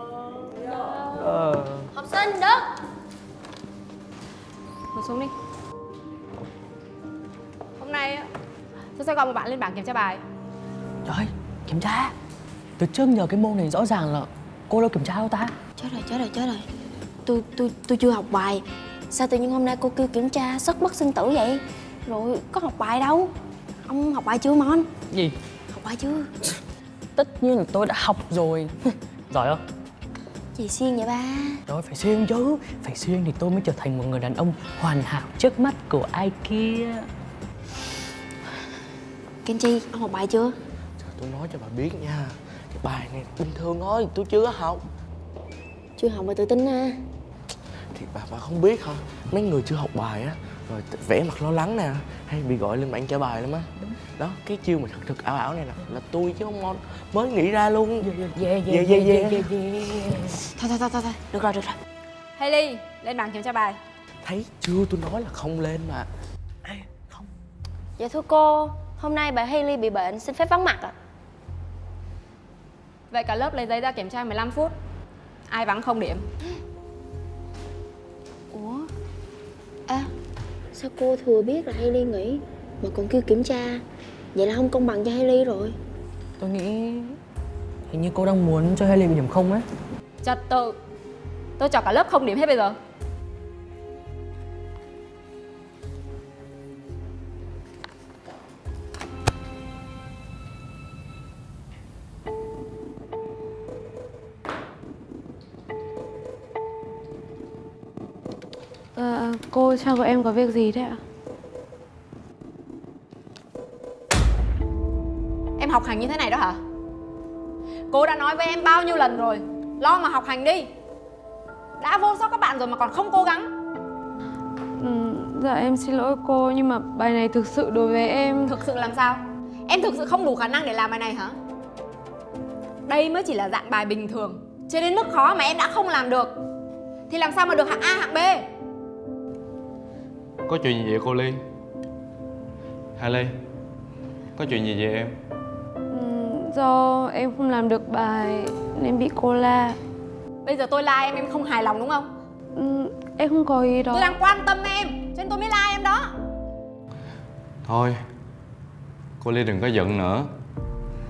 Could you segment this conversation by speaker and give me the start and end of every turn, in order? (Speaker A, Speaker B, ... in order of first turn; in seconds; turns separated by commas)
Speaker A: 1.9-2.7, Speaker B: 4.9-5.3, Speaker B: 7.8-8.3, Speaker B: 8.9-10.2, Speaker C: 11.1-12.2, Speaker C: 12.8-15.6, Speaker A: 15.8-16.7, Speaker A: 17.3-23.3, Speaker A: 23.9-25.0, Speaker C: 25.1-25.4, Speaker A: 25.7-26.5, Speaker C: 27.2-29.6, Speaker A: 30.6-31.6, Speaker C: 31.7-37.1, Speaker A: 39.5-40.6, Speaker D: 41.0-44.9, Speaker A: 46.0-47.0, Speaker D: 47.9-59.6, Speaker C: 58.0-60.4, Speaker B: 60.6-61.4, Speaker A: 61.4-61.8, Speaker B: 62.4-63.8, Speaker D: 64.2-66.1, Speaker C: 66.7-67.3, Speaker A: 68.0-71.0, Speaker B: 73.1-74.7, Speaker B: 75.5-76.2, Speaker A: 78.5-78.9, Speaker A: 80.7-85.8, Speaker C: 86.4-87.2, Speaker C: 87.9-89.7, Speaker B: 90.2-90.8, Speaker B: 91.6-92.8, Speaker E: 109.0-111.0, Speaker B: 115.6-116.6, Speaker B: 117.9-120.7, Speaker B: 121.8-123.5, Speaker E: 124.8-128.5, Speaker B: 128.4-131.4, Speaker B: 132.9-136.3, Speaker B: 137.1-138.4, Speaker F: 140.5-141.4, Speaker F: 143.0-143.3, Speaker F: 144.4-145.1, Speaker E: 145.9-149.8, Speaker B: 150.4-152.1, Speaker E: 152.5-154.2, Speaker B: 153.9-156.1, Speaker F: 157.7-157.9, Speaker F: 159.2-160.3